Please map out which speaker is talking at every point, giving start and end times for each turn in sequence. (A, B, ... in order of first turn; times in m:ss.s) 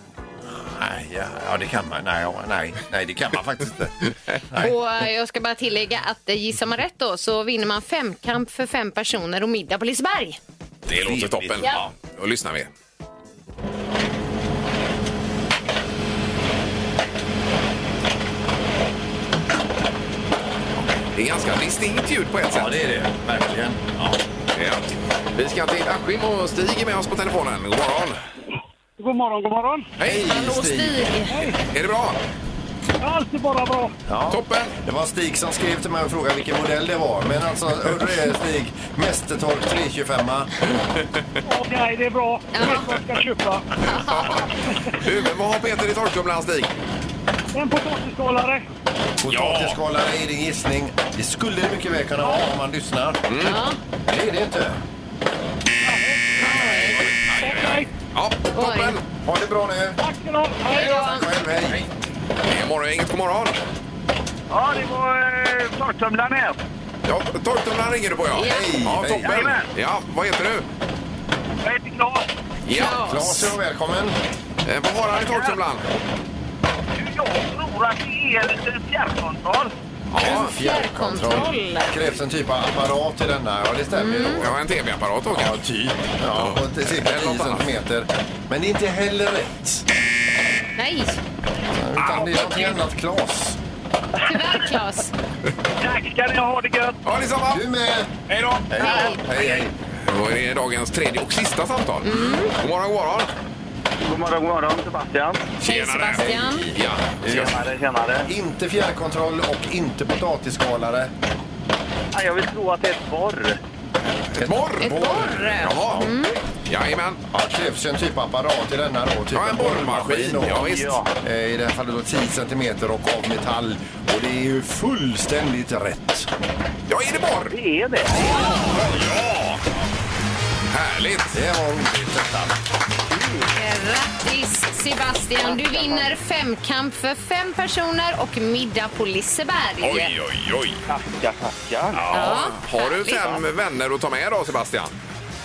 0:00.5-0:04.7 A
0:04.6-0:10.4 B
0:10.9-0:12.7 C
0:10.9-0:11.9 A
0:21.1-0:22.8 C
0:22.5-0:24.2 A
0:24.5-0:24.8 C
0:25.4-0:28.2 C
0:29.0-0:29.9 D
0:30.0-0:30.3 C
0:30.1-0:31.0 A
0:30.1-0:31.4 B
0:31.3-0:31.6 D
0:31.7-0:32.2 C
0:33.0-0:33.9 D
0:34.1-0:40.5 A
0:34.3-0:34.8 C
0:41.5-0:45.0 D
0:42.5-0:42.9 B
0:43.9-0:46.7 C
0:47.5-0:48.7 D
0:49.2-0:53.2 A
0:49.3-0:49.8 C
0:52.2-0:52.5 D
0:53.3-0:53.6 C
0:53.4-0:53.8 B
0:54.1-0:54.8 A
0:55.8-0:56.3 D
0:56.4-0:57.0 B
0:56.4-0:59.0 C
0:57.3-0:57.9 D
0:58.6-0:59.0 B
0:59.2-1:00.0 A
1:00.0-1:01.2 D
1:00.7-1:01.3 B
1:00.7-1:01.8 A
1:02.4-1:03.6 C
1:04.5-1:06.6 D
1:07.0-1:10.7 C
1:08.3-1:08.7 B
1:08.4-1:09.5 A
1:09.2-1:09.7 D
1:11.6-1:12.3 D
1:12.6-1:13.1 C
1:12.7-1:13.5 B
1:13.0-1:14.2 A
1:14.6-1:15.9 C
1:17.0-1:19.8 D
1:20.1-1:20.5 C
1:20.2-1:24.6 A
1:20.3-1:22.0 B
1:23.9-1:24.4 B
1:24.4-1:25.6 C
1:25.3-1:29.8 A
1:26.3-1:27.7 C
1:30.8-1:31.2 B
1:31.7-1:33.6 A
1:32.0-1:32.7 C
1:34.2-1:35.1 B
1:35.8-1:37.0 D
1:37.0-1:37.6 C
1:37.5-1:38.1 A
1:38.3-1:43.3 C
1:38.7-1:39.7 A
1:38.8-1:39.2 B
1:42.0-1:42.6 B
1:44.0-1:45.5 D
1:45.6-1:46.7 B
1:45.6-1:47.6 C
1:46.2-1:47.5 A
1:47.3-1:48.3 D
1:48.3-1:51.1 A
1:52.1-1:53.6 D
1:54.4-1:56.1 A
1:54.4-1:56.0 C
1:54.8-1:56.4 B
1:56.7-1:57.2 C
1:57.3-2:06.3 A
1:59.3-2:01.0 C
2:00.7-2:01.1 D
2:06.9-2:07.6 C
2:07.5-2:08.5 D
2:08.3-2:09.3 C
2:10.7-2:11.4 C
2:11.3-2:12.6 A
2:13.5-2:20.1 B
2:15.4-2:16.1 D
2:19.8-2:20.8 C
2:20.9-2:22.1 D
2:21.9-2:25.0 C
2:22.1-2:23.4 B